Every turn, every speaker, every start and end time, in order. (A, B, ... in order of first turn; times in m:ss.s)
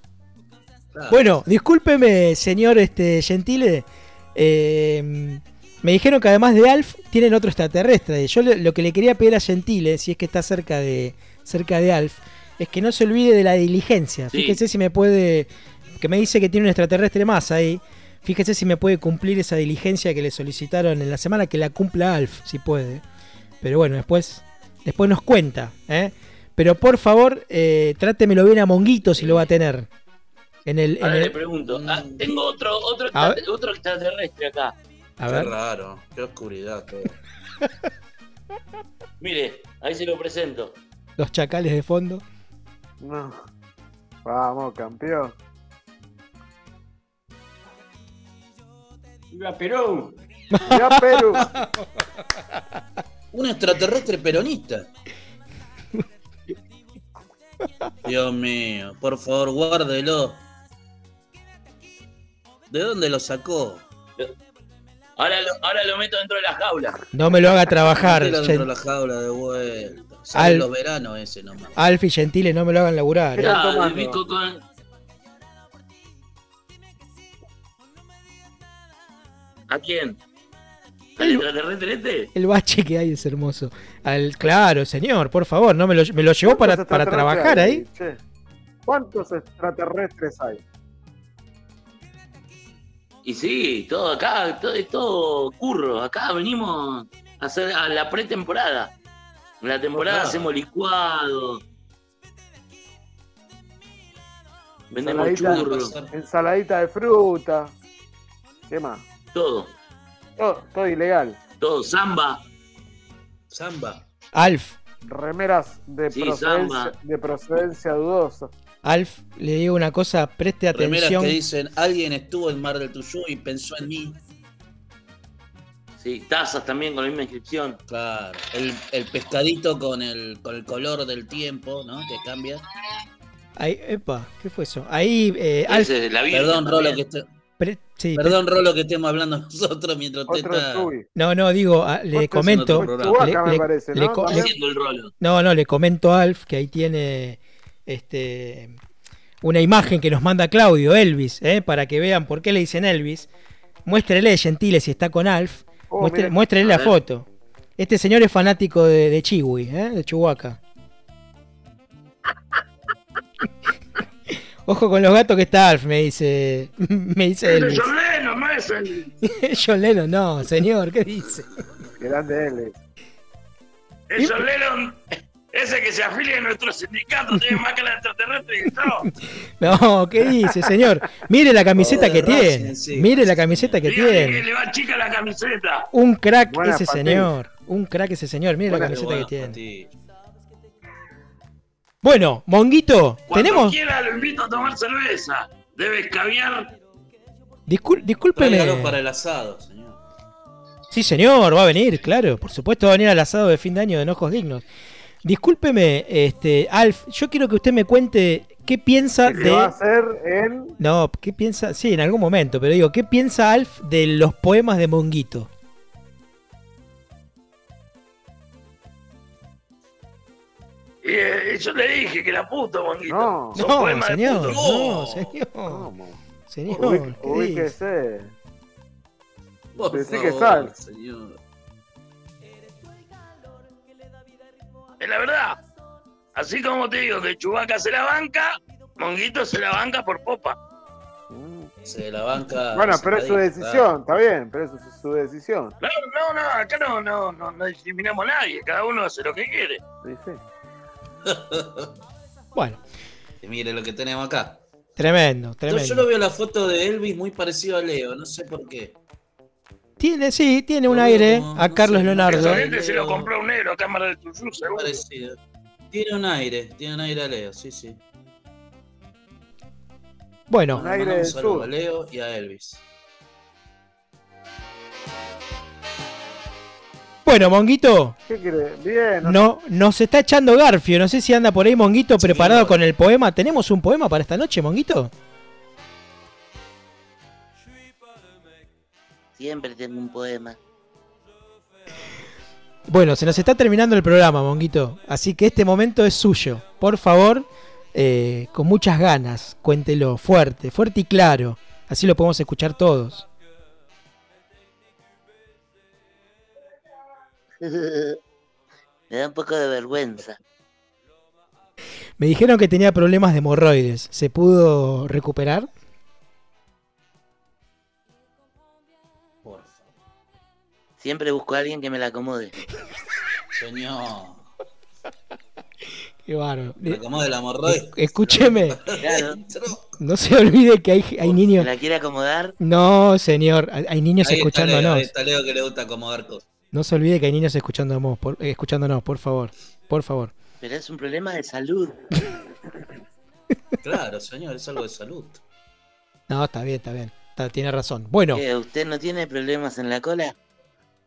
0:00.9-0:01.3 A
0:01.1-0:15.5 B
0:14.3-0:14.6 C
0:16.0-0:23.0 B
0:23.6-0:29.9 B
0:30.6-0:31.4 B
0:31.0-0:34.7 C
0:31.6-0:32.3 A
0:33.1-0:33.4 B
0:35.2-0:35.5 B
0:35.2-0:37.2 A
0:39.2-0:40.8 C
0:41.2-0:42.2 B
0:43.0-0:43.4 D
0:44.2-0:45.3 D
0:49.3-0:50.1 C
0:50.5-0:51.4 B
0:50.7-0:51.5 D
0:53.3-0:54.9 A
0:58.0-1:00.4 A
1:02.7-1:03.8 A
1:05.2-1:07.0 C
1:07.1-1:08.7 B
1:07.9-1:11.8 A
1:10.3-1:10.6 B
1:11.8-1:13.5 B
1:13.4-1:14.2 D
1:13.4-1:14.6 C
1:19.7-1:20.2 C
1:21.2-1:22.3 C
1:21.2-1:21.4 B
1:22.3-1:27.8 B
1:26.4-1:28.2 D
1:28.8-1:30.6 D
1:33.2-1:38.9 C
1:39.6-1:41.6 C
1:40.0-1:40.5 A
1:44.9-1:45.9 C
1:45.0-1:46.1 A
1:45.1-1:47.7 D
1:48.7-1:49.0 D
1:49.3-1:49.7 C
1:50.4-1:51.4 D
1:51.6-1:52.4 C
1:53.5-1:54.0 A
1:54.3-1:54.8 B
1:55.0-1:58.5 D
1:56.1-1:56.9 C
1:58.8-2:01.4 B
2:00.7-2:04.2 A
2:06.0-2:07.8 C
2:07.9-2:12.6 A
2:13.6-2:15.9 B
2:15.7-2:17.0 C
2:16.3-2:17.2 A
2:17.6-2:18.4 B
2:18.1-2:20.9 A
2:20.3-2:21.1 D
2:21.1-2:24.4 B
2:22.1-2:24.5 D
2:22.4-2:23.2 A
2:24.2-2:25.1 C
2:25.2-2:28.7 B
2:29.4-2:33.3 B
2:33.8-2:37.2 B
2:35.9-2:36.3 D
2:36.6-2:37.0 C
2:37.8-2:40.6 B
2:44.6-2:47.9 B
2:47.4-2:49.1 C
2:49.2-2:51.5 B
2:52.0-2:52.8 D
2:54.1-2:55.0 C
2:54.2-2:54.4 B
2:55.5-2:59.1 C
2:59.1-3:04.4 B
3:01.8-3:03.8 A
3:03.8-3:05.9 C
3:05.9-3:09.6 B
3:06.5-3:07.3 D
3:08.8-3:09.9 A
3:12.0-3:13.8 B
3:13.3-3:16.7 C
3:17.7-3:19.0 B
3:18.3-3:20.0 A
3:20.9-3:24.6 B
3:25.2-3:29.7 B
3:29.2-3:30.7 D
3:30.8-3:35.5 B
3:41.0-3:44.6 C
3:43.1-3:43.6 D
3:43.5-3:45.8 B
3:44.5-3:45.4 A
3:45.6-3:48.3 D
3:46.5-3:47.7 B
3:49.8-3:51.4 A
3:49.9-3:50.7 D
3:55.0-3:55.6 C
3:56.3-4:00.6 C
4:01.3-4:01.7 D
4:01.8-4:03.9 A
4:02.7-4:05.7 D
4:05.8-4:09.8 C
4:10.0-4:10.4 D
4:11.2-4:11.9 A
4:13.4-4:14.6 A
4:15.0-4:16.1 B
4:15.7-4:19.0 A
4:20.0-4:22.6 B
4:20.9-4:23.3 A
4:22.2-4:25.0 C
4:24.7-4:25.4 A
4:25.9-4:28.0 A
4:30.5-4:30.8 B
4:30.7-4:32.8 A
4:30.8-4:31.7 D
4:37.2-4:38.2 B
4:38.3-4:39.4 D
4:39.2-4:45.1 B
4:42.2-4:42.7 A
4:42.4-4:42.7 C
4:49.4-4:50.6 C
4:52.9-5:03.2 B
5:07.6-5:08.2 C
5:09.1-5:10.4 C
5:12.2-5:15.7 B
5:19.4-5:19.9 A
5:21.0-5:22.5 C
5:23.5-5:24.5 A
5:26.2-5:27.0 B
5:26.8-5:30.0 A
5:27.6-5:28.8 B
5:29.0-5:29.4 C
5:30.0-5:31.7 B
5:31.6-5:32.6 C
5:32.6-5:35.1 B
5:34.2-5:36.4 A
5:36.7-5:40.3 B
5:40.6-5:42.0 C
5:43.8-5:45.4 A
5:46.3-5:48.4 B
5:48.3-5:50.4 C